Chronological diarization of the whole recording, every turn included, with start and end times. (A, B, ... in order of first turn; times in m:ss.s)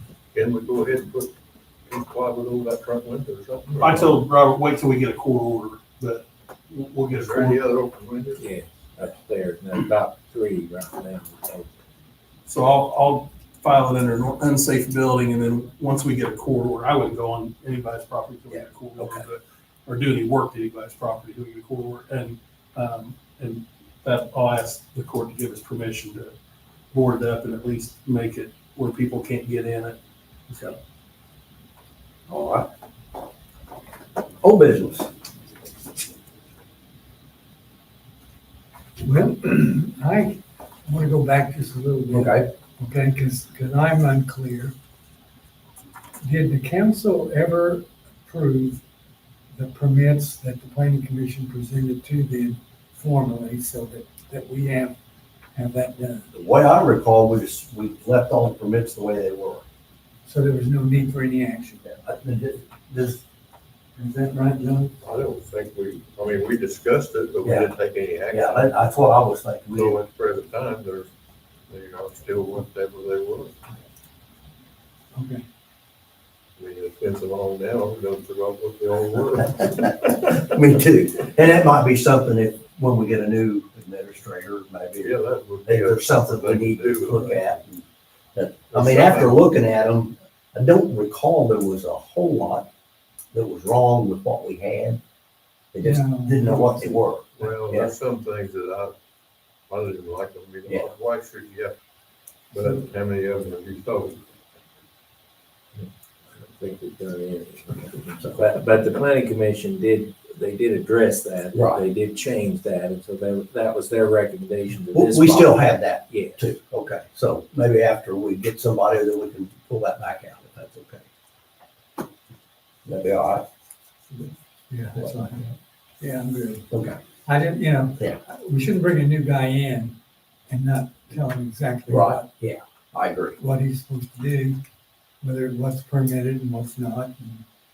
0:00.3-0:01.3 A
0:01.9-0:04.2 A
0:03.8-0:07.6 B
0:07.1-0:08.5 A
0:08.4-0:11.7 C
0:12.5-0:26.3 B
0:18.5-0:19.2 D
0:26.9-0:30.0 B
0:32.3-0:32.7 D
0:34.4-0:35.1 D
0:39.0-0:44.7 E
0:42.1-0:42.5 D
0:46.2-0:48.8 E
0:49.5-0:55.0 E
0:55.6-0:56.3 E
0:56.3-0:59.6 D
1:00.2-1:01.8 E
1:01.9-1:03.2 D
1:04.0-1:05.0 E
1:05.0-1:08.7 A
1:07.4-1:07.7 D
1:08.3-1:10.0 D
1:09.7-1:11.1 A
1:11.7-1:13.6 A
1:15.1-1:15.4 E
1:16.6-1:20.1 A
1:20.0-1:32.7 D
1:25.0-1:27.6 A
1:28.7-1:29.4 A
1:33.3-1:35.0 D
1:35.7-1:37.9 D
1:35.8-1:37.0 E
1:37.4-1:38.9 A
1:39.7-1:41.8 A
1:42.5-1:44.3 A
1:46.3-1:56.4 C
1:51.5-1:51.8 D
1:54.9-2:01.0 D
2:02.8-2:03.5 D
2:04.7-2:05.5 E
2:05.0-2:05.5 D
2:06.0-2:06.7 E
2:06.7-2:07.0 D
2:07.2-2:10.0 E
2:10.5-2:12.3 E
2:11.9-2:13.4 D
2:13.4-2:14.6 E
2:15.2-2:17.4 E